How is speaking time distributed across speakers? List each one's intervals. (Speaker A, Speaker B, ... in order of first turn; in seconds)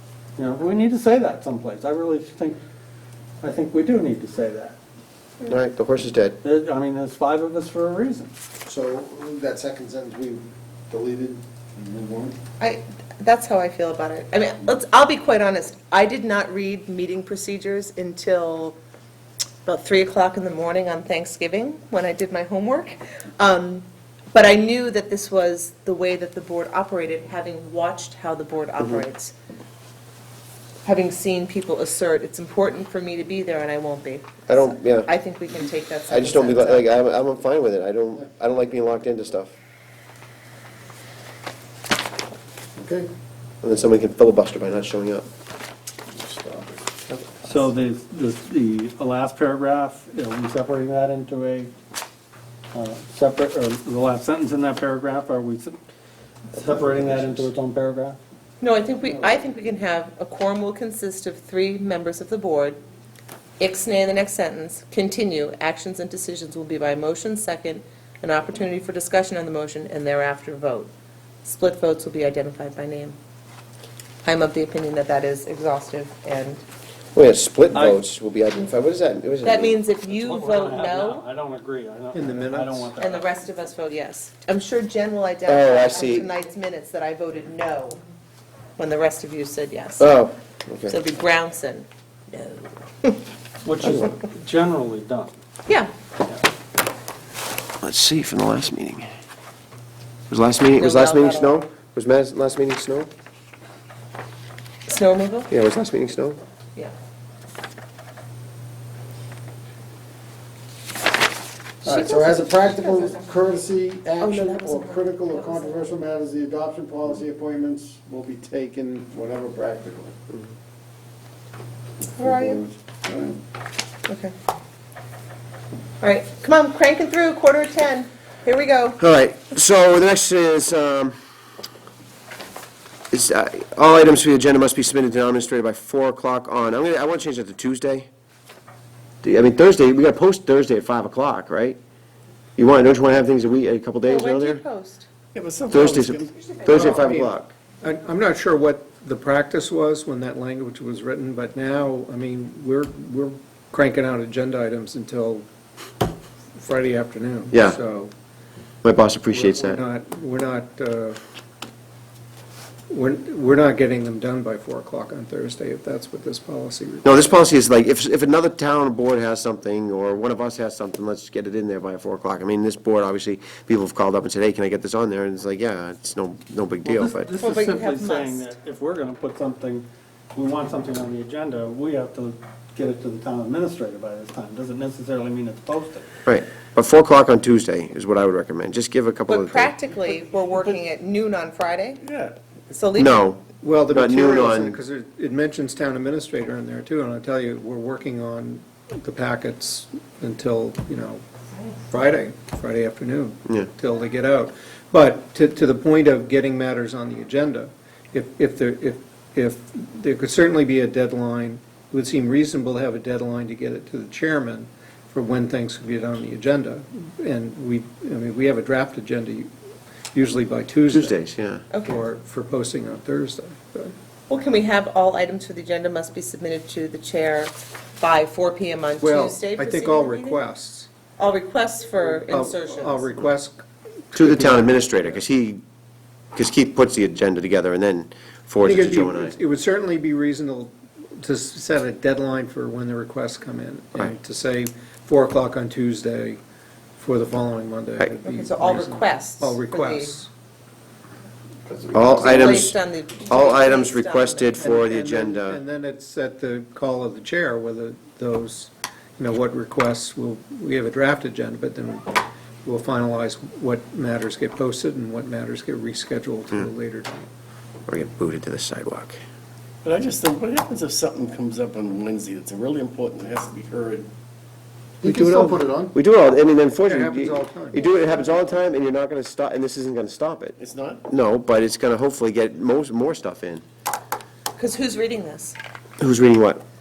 Speaker A: 0.3-2.6, 3.4-4.8, 6.4-8.3, 47.4-51.7, 52.7-55.8, 56.5-58.2, 77.7-78.0, 80.1-83.4, 93.6-95.3, 176.8-186.1, 190.1-190.8, 192.0-192.3
Speaker B: 5.4-6.4, 34.5-35.1, 36.1-39.5, 43.6-45.2, 77.1-79.8, 85.5-86.3, 90.0-91.0, 97.8-99.1, 100.3-103.1, 105.5-106.4, 129.0-131.2, 133.1-138.1, 139.2-141.8, 142.6-144.6, 145.7-147.5, 157.5-157.8, 158.8-159.8, 167.0-177.3, 186.2-189.7, 192.9-194.8, 220.9-221.6, 234.1-235.6, 236.3-239.3, 251.9-255.6, 267.9-269.2, 275.9-280.6, 281.1-283.6, 286.0-286.6
Speaker C: 8.6-12.4, 42.8-43.1, 46.1-46.9, 111.8-120.1, 122.2-123.4, 251.7-252.3, 275.0-275.9
Speaker D: 12.6-18.8, 19.6-29.3, 30.8-36.9, 58.6-62.8, 63.6-70.9, 71.4-73.2, 74.2-76.6, 79.4-81.3, 83.0-88.0, 88.8-90.1, 90.9-93.2, 95.7-95.9, 100.7-101.7, 104.9-105.5, 111.8-113.3, 114.2-116.0, 122.2-122.6, 124.1-124.3, 126.0-129.0, 144.0-145.1, 177.4-178.5, 189.3-192.0, 192.7-193.2, 221.7-222.0, 224.3-230.4, 231.2-233.1, 248.2-250.2, 252.2-254.5, 284.6-285.6
Speaker E: 82.1-82.9, 146.7-155.4, 156.6-158.1, 159.3-161.2, 162.9-167.3, 193.6-201.2, 201.9-219.5, 220.1-221.2, 221.8-223.9, 229.0-230.9, 232.2-234.8, 238.6-246.4, 247.0-250.3, 254.6-267.3, 275.0-275.6, 276.8-277.8
Speaker F: 145.3-146.5, 269.8-274.1, 280.6-281.0